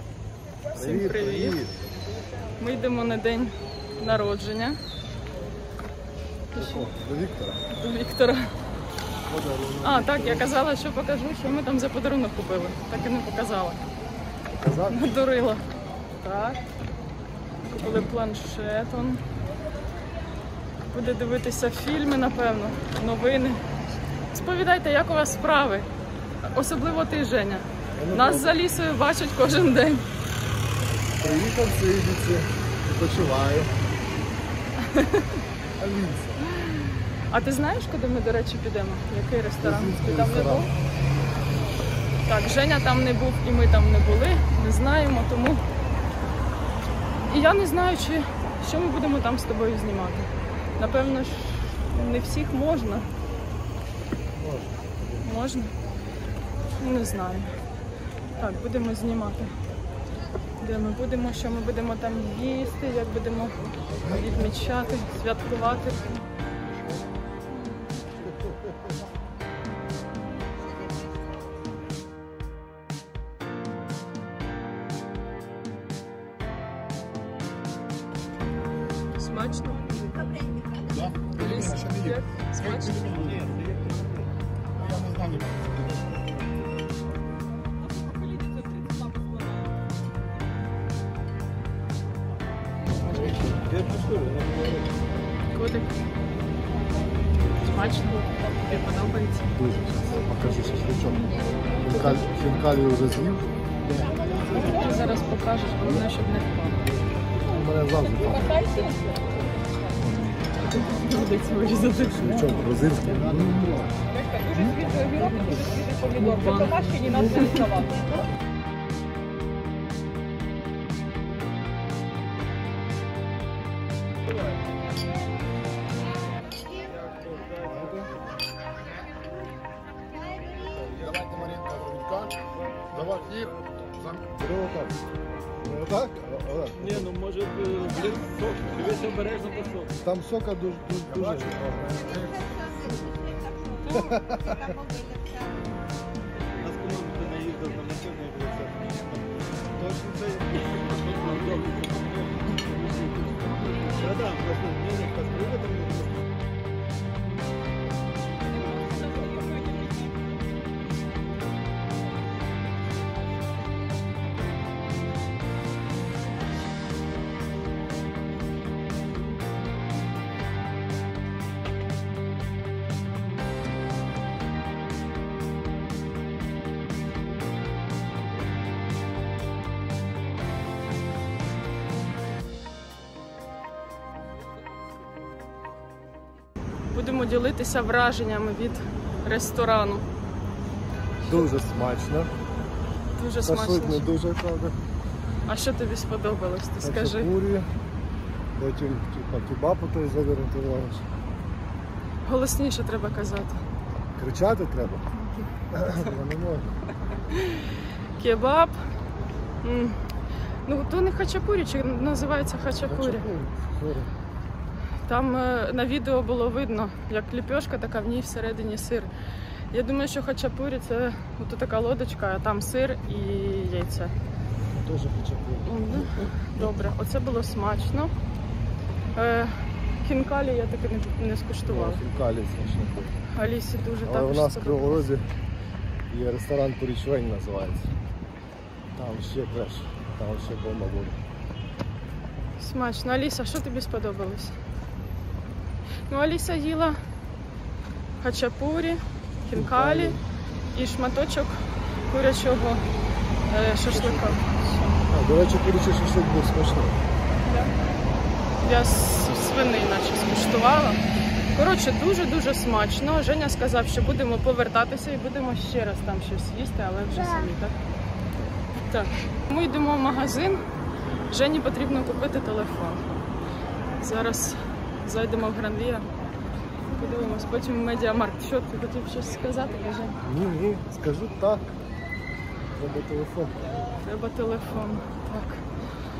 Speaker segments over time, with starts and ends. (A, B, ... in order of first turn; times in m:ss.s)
0:00.7-0:01.6 A
0:00.7-0:01.9 B
0:02.6-0:04.8 A
0:06.5-0:06.9 A
0:06.5-0:07.6 B
0:07.7-0:08.5 A
0:09.3-0:10.5 B
0:09.8-0:13.8 A
0:14.6-0:15.1 B
0:14.9-0:16.6 A
0:17.6-0:19.2 A
0:20.9-0:23.6 A
0:24.3-0:25.9 A
0:26.4-0:30.0 A
0:28.0-0:28.6 B
0:31.0-0:33.7 B
0:34.8-0:35.4 A
0:35.8-0:36.4 B
0:36.4-0:40.7 A
0:39.6-0:40.7 B
0:42.2-0:45.6 A
0:47.2-0:53.1 A
0:54.3-0:55.2 B
0:55.2-0:55.7 A
0:56.8-0:57.5 A
0:58.3-0:59.5 A
1:00.6-1:06.2 A
1:04.0-1:04.3 B
1:19.2-1:19.8 A
1:21.2-1:23.2 A
1:21.5-1:22.0 B
1:23.1-1:23.8 C
1:24.9-1:25.3 C
1:33.1-1:33.4 B
1:33.7-1:34.7 C
1:35.5-1:35.9 A
1:37.6-1:39.5 A
1:39.5-1:44.2 B
1:44.4-1:46.9 A
1:47.4-1:48.6 B
1:48.6-1:49.0 A
1:50.0-1:50.4 B
1:50.6-1:52.4 A
1:52.0-1:54.0 B
1:54.1-1:58.0 A
2:07.0-2:07.8 C
2:07.6-2:08.1 B
2:11.0-2:12.1 C
2:12.9-2:13.5 C
2:14.1-2:15.0 B
2:15.6-2:17.1 B
2:16.8-2:19.9 C
2:20.0-2:22.2 B
2:23.9-2:24.7 B
2:26.6-2:29.0 C
2:29.7-2:32.6 C
2:33.8-2:36.1 C
3:06.9-3:10.0 A
3:11.2-3:12.3 B
3:13.2-3:14.1 A
3:13.4-3:14.8 B
3:15.4-3:17.3 A
3:16.8-3:17.7 B
3:18.6-3:21.1 B
3:22.2-3:23.6 A
3:24.2-3:25.1 B
3:25.7-3:26.7 B
3:27.3-3:27.6 A
3:28.2-3:28.8 A
3:29.6-3:30.0 A
3:30.6-3:33.3 A
3:32.8-3:34.1 B
3:35.0-3:39.1 A
3:39.7-3:44.1 A
3:44.7-3:46.3 B
3:45.6-3:48.1 A
3:49.1-3:52.0 A
3:51.7-3:53.1 B
3:53.3-3:55.0 A
3:54.0-3:55.3 B
3:56.1-3:57.9 B
3:58.9-4:01.2 B
4:02.6-4:04.6 A
4:06.1-4:07.0 A
4:08.2-4:10.2 A
4:09.5-4:10.2 B
4:10.7-4:12.8 A
4:13.5-4:15.0 A
4:13.9-4:14.4 B
4:15.1-4:17.0 B
4:17.4-4:17.7 A
4:18.6-4:27.8 A
4:28.9-4:30.6 A
4:31.3-4:33.2 A
4:34.0-4:36.0 A
4:36.9-4:40.2 A
4:40.2-4:41.8 B
4:42.7-4:43.8 B
4:44.0-4:45.6 A